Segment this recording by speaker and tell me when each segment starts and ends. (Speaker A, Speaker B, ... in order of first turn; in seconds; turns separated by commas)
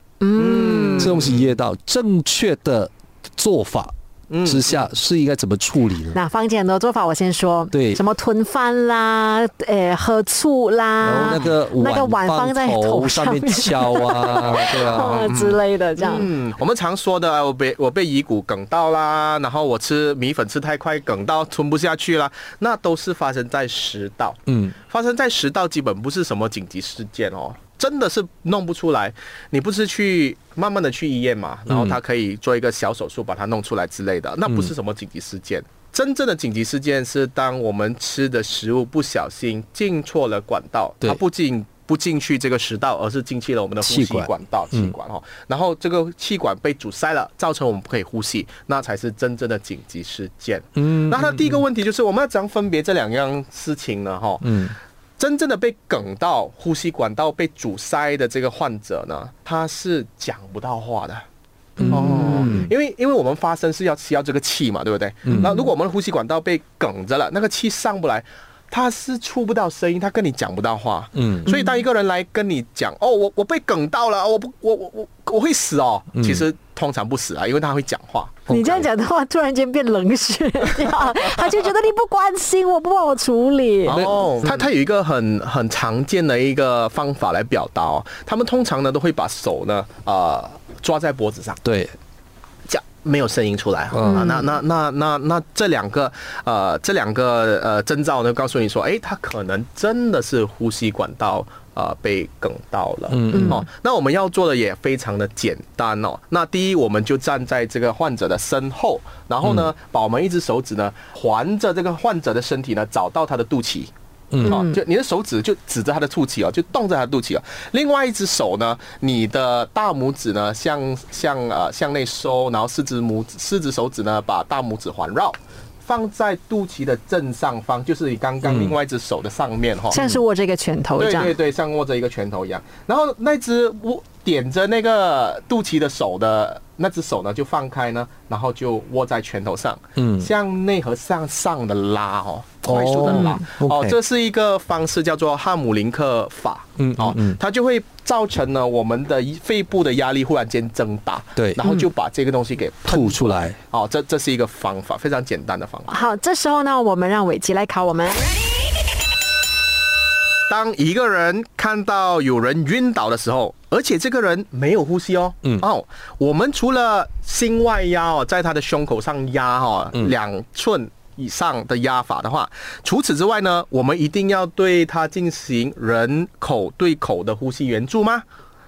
Speaker A: 0.2-1.2, Speaker B: 0.3-1.5, Speaker C: 1.0-3.9, Speaker B: 4.3-4.8, Speaker C: 4.5-6.2, Speaker A: 6.1-16.3, Speaker C: 7.7-8.0, Speaker C: 11.0-15.3, Speaker B: 11.2-11.5, Speaker B: 14.3-54.5, Speaker C: 24.5-24.8, Speaker C: 31.7-32.0, Speaker C: 34.5-34.7, Speaker C: 43.8-44.9, Speaker C: 50.8-51.6, Speaker C: 54.4-54.8, Speaker B: 55.2-61.2, Speaker C: 61.8-62.7, Speaker A: 61.8-62.6, Speaker B: 61.9-78.8, Speaker C: 65.3-65.6, Speaker C: 71.2-71.5, Speaker C: 76.2-76.5, Speaker A: 78.5-84.3, Speaker B: 83.8-91.6, Speaker C: 83.9-84.2, Speaker C: 91.6-91.9, Speaker B: 92.7-113.9, Speaker C: 93.9-94.3, Speaker A: 94.0-94.5, Speaker C: 103.1-103.6, Speaker A: 103.3-103.6, Speaker C: 109.4-109.7, Speaker C: 114.3-114.6, Speaker A: 114.4-114.8, Speaker B: 114.5-130.0, Speaker C: 128.4-128.7, Speaker A: 129.9-131.3, Speaker C: 129.9-130.2, Speaker B: 131.0-155.9, Speaker C: 140.0-140.3, Speaker C: 142.7-144.0, Speaker A: 143.0-143.3, Speaker C: 146.8-147.4, Speaker C: 151.4-151.6, Speaker C: 152.9-153.6, Speaker A: 155.9-158.4, Speaker B: 160.5-178.2